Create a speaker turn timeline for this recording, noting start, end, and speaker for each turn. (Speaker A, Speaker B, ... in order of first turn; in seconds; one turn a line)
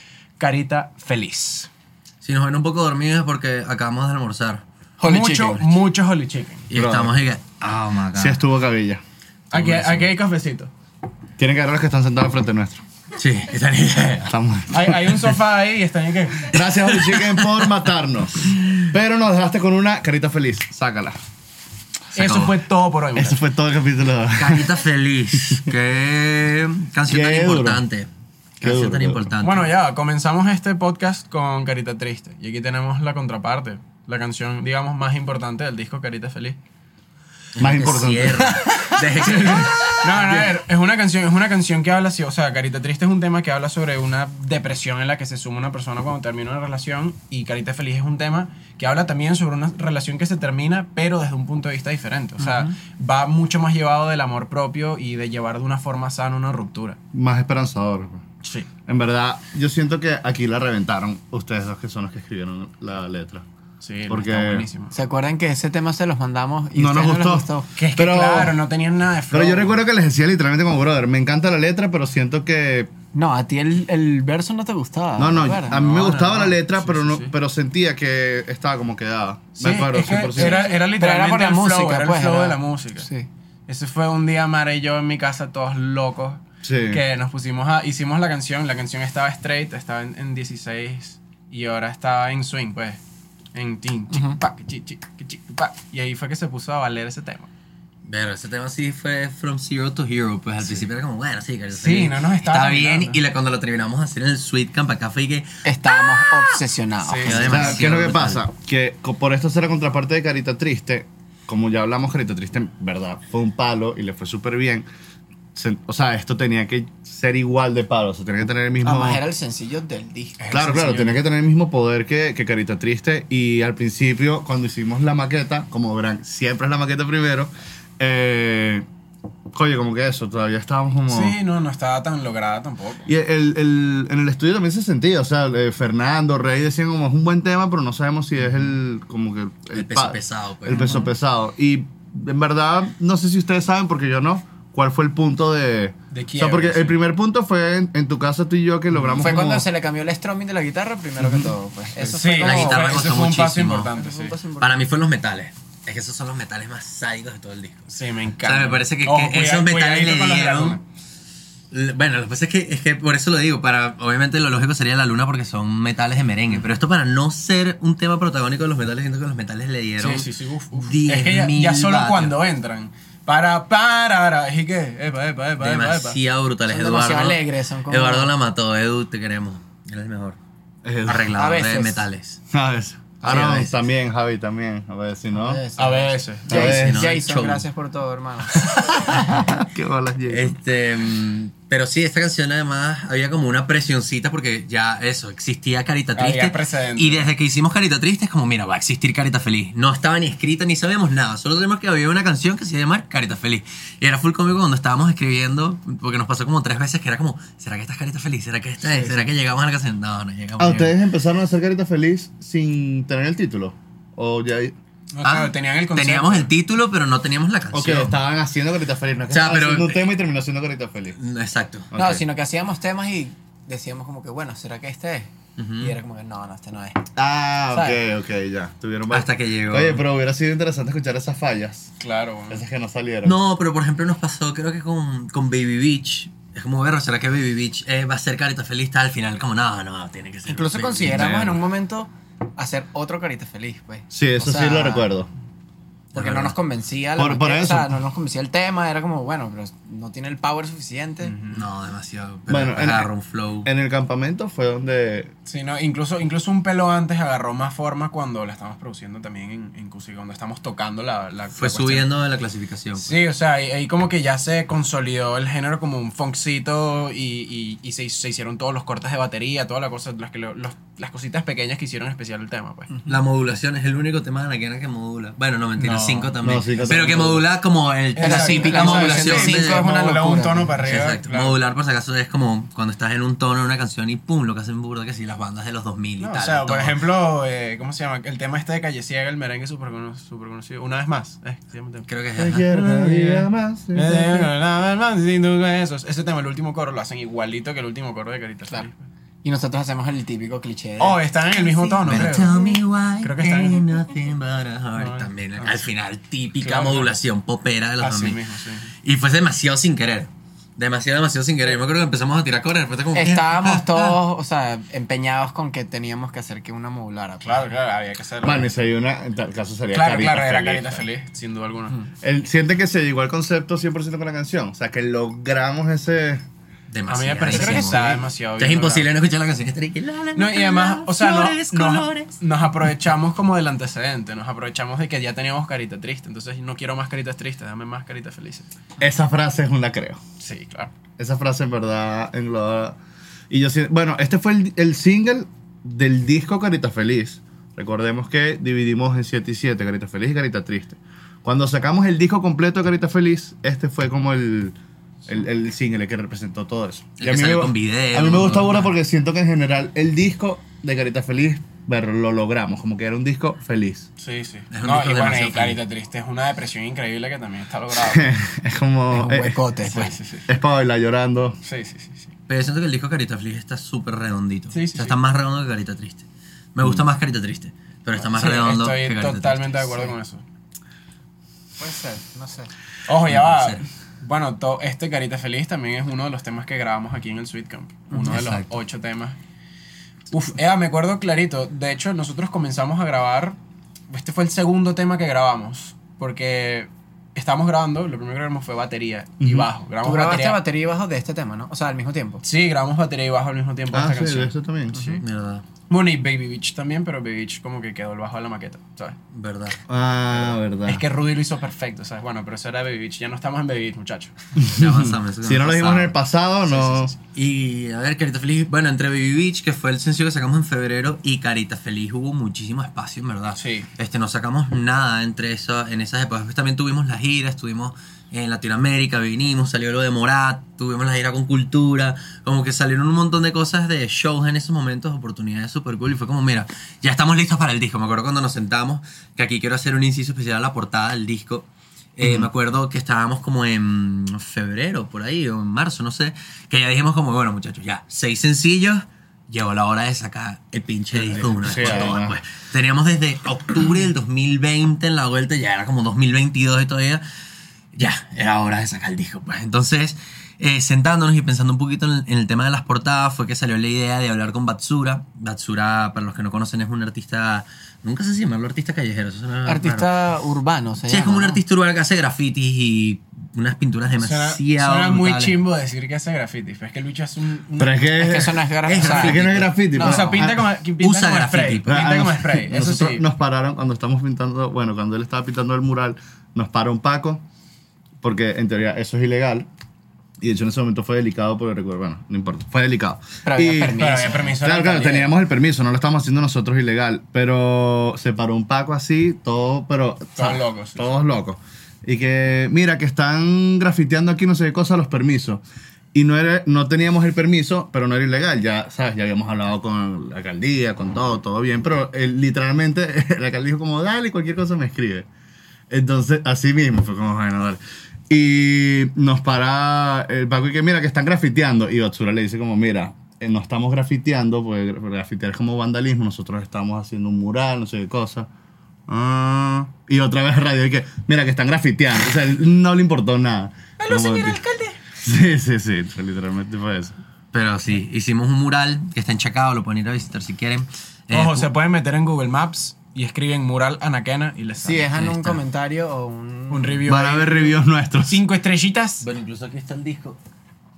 Speaker A: 0.4-1.7
Speaker B: 2.2-4.6
Speaker C: 5.0-5.8
Speaker A: 5.0-6.7
Speaker B: 6.7-8.4
Speaker D: 6.7-7.2
Speaker D: 8.1-9.0
Speaker A: 9.5-10.7
Speaker B: 9.5-10.1
Speaker D: 11.4-12.8
Speaker B: 13.2-14.3
Speaker D: 14.2-15.1
Speaker A: 14.7-16.7
Speaker D: 16.5-21.2
Speaker B: 17.1-17.7
Speaker B: 22.1-22.5
Speaker A: 22.1-23.4
Speaker D: 23.1-24.7
Speaker B: 24.4-28.1
Speaker D: 27.1-27.8
Speaker D: 28.6-29.3
Speaker B: 28.6-29.7
Speaker A: 29.4-36.6
Speaker B: 37.5-40.3
Speaker D: 37.6-38.5
Speaker A: 40.0-57.0
Speaker D: 57.1-58.2
Speaker D: 58.9-63.4
Speaker A: 63.8-64.9
Speaker D: 64.1-64.7
Speaker C: 64.9-67.7
Speaker D: 66.7-68.6
Speaker A: 67.8-69.8
Speaker D: 69.3-72.9
Speaker C: 73.1-75.8
Speaker D: 75.2-80.6
Speaker A: 75.7-77.3
Speaker A: 79.6-83.1
Speaker C: 80.3-83.3
Speaker A: 83.7-93.0
Speaker D: 86.6-87.0
Speaker A: 93.5-97.5
Speaker C: 94.1-94.4
Speaker B: 98.0-105.5
Speaker A: 101.7-103.2
Speaker C: 105.6-107.6
Speaker A: 107.0-107.8
Speaker B: 107.3-108.4
Speaker D: 107.4-114.9
Speaker D: 115.5-119.2
Speaker C: 118.8-120.5
Speaker A: 120.4-121.2
Speaker D: 120.5-128.8
Speaker D: 129.5-131.3
Speaker A: 131.1-133.0
Speaker D: 133.1-149.7
Speaker B: 139.7-141.0
Speaker A: 146.1-147.0
Speaker A: 148.9-149.2
Speaker C: 149.2-153.0
Speaker D: 151.2-151.5
Speaker A: 152.0-154.4
Speaker B: 152.4-153.9
Speaker C: 153.9-154.8
Speaker B: 154.6-157.9
Speaker A: 157.9-160.8
Speaker B: 158.4-160.8
Speaker B: 161.7-172.4
Speaker A: 170.0-176.2
Speaker B: 175.6-180.4
Speaker C: 176.7-178.3
Speaker D: 180.8-181.3
Speaker B: 181.1-182.4
Speaker C: 181.4-182.1
Speaker D: 182.5-185.6
Speaker B: 183.2-183.8
Speaker C: 185.4-189.3
Speaker A: 185.8-186.7
Speaker D: 186.5-187.0
Speaker B: 186.5-187.6
Speaker D: 189.1-190.6
Speaker B: 190.3-210.9
Speaker A: 196.1-197.3
Speaker C: 208.9-209.3
Speaker D: 210.6-214.7
Speaker A: 215.1-216.5
Speaker B: 215.2-218.2
Speaker D: 217.7-221.2
Speaker B: 219.3-220.1
Speaker B: 221.2-221.9
Speaker D: 221.9-222.2
Speaker C: 221.9-227.0
Speaker B: 225.6-226.0
Speaker D: 227.1-231.9
Speaker C: 227.7-228.0
Speaker B: 229.1-230.0
Speaker A: 232.0-232.6
Speaker D: 232.5-233.4
Speaker B: 233.2-241.6
Speaker C: 240.5-245.1
Speaker D: 244.1-245.3
Speaker C: 246.1-251.3
Speaker B: 246.1-246.5
Speaker D: 247.2-247.9
Speaker A: 251.2-251.7
Speaker B: 251.5-253.7
Speaker D: 252.5-253.1
Speaker D: 253.6-255.3
Speaker A: 255.4-262.1
Speaker B: 261.6-263.1
Speaker A: 262.9-272.9
Speaker B: 273.1-279.9
Speaker A: 275.8-276.3
Speaker D: 276.4-277.5
Speaker A: 278.1-281.6
Speaker C: 278.2-280.8
Speaker B: 280.8-286.9
Speaker A: 286.2-292.1
Speaker B: 292.1-292.6
Speaker D: 292.4-294.5
Speaker A: 292.7-299.0
Speaker C: 299.4-302.3
Speaker A: 301.0-302.6
Speaker B: 302.0-308.4
Speaker A: 303.2-303.8
Speaker A: 304.9-305.8
Speaker A: 306.6-307.1
Speaker A: 308.0-308.9
Speaker B: 309.0-314.2
Speaker C: 313.1-317.7
Speaker A: 317.4-318.7
Speaker D: 318.4-321.0
Speaker A: 319.9-322.0
Speaker D: 322.2-326.4
Speaker B: 326.9-332.4
Speaker A: 327.1-329.1
Speaker C: 327.5-327.8
Speaker A: 330.3-338.8
Speaker D: 339.0-340.2
Speaker A: 340.4-340.9
Speaker D: 341.2-343.0
Speaker D: 343.5-354.8
Speaker D: 355.3-364.1
Speaker B: 357.2-358.9
Speaker A: 364.2-368.3
Speaker B: 364.7-365.8
Speaker D: 368.1-371.6
Speaker C: 369.1-370.1
Speaker A: 369.9-370.4
Speaker A: 371.6-372.3
Speaker B: 372.5-380.1
Speaker A: 374.7-375.1
Speaker A: 378.2-380.4
Speaker C: 381.8-382.7
Speaker A: 383.1-389.4
Speaker B: 383.2-383.8
Speaker B: 388.1-388.7
Speaker A: 390.3-393.6
Speaker A: 394.1-400.6
Speaker D: 399.4-399.7
Speaker C: 400.0-402.4
Speaker A: 402.4-405.2
Speaker D: 403.9-405.0
Speaker B: 405.2-405.6
Speaker A: 405.9-409.1
Speaker B: 409.3-409.8
Speaker D: 409.9-411.0
Speaker A: 410.3-414.3
Speaker D: 414.6-417.1
Speaker B: 414.8-416.2
Speaker A: 416.6-417.1
Speaker B: 417.3-457.2
Speaker A: 423.5-423.9
Speaker D: 442.2-442.5
Speaker D: 451.2-452.4
Speaker B: 457.9-470.2
Speaker C: 469.6-471.6
Speaker B: 471.1-475.6
Speaker A: 474.2-478.0
Speaker D: 477.8-480.6
Speaker C: 478.2-480.4
Speaker A: 478.9-479.3
Speaker B: 479.0-479.5
Speaker A: 479.9-483.2
Speaker B: 481.0-482.1
Speaker D: 481.9-487.4
Speaker D: 488.2-489.7
Speaker D: 490.4-494.0
Speaker C: 493.4-494.5
Speaker A: 494.0-495.3
Speaker D: 494.6-505.6
Speaker A: 500.3-501.1
Speaker D: 506.1-515.3
Speaker D: 515.9-528.5
Speaker D: 529.1-534.6
Speaker A: 534.0-534.9
Speaker D: 535.1-537.1
Speaker B: 537.5-541.7
Speaker A: 541.3-545.1
Speaker C: 544.8-547.0
Speaker B: 545.1-545.6
Speaker A: 546.7-549.2
Speaker D: 547.0-548.4
Speaker B: 549.2-550.4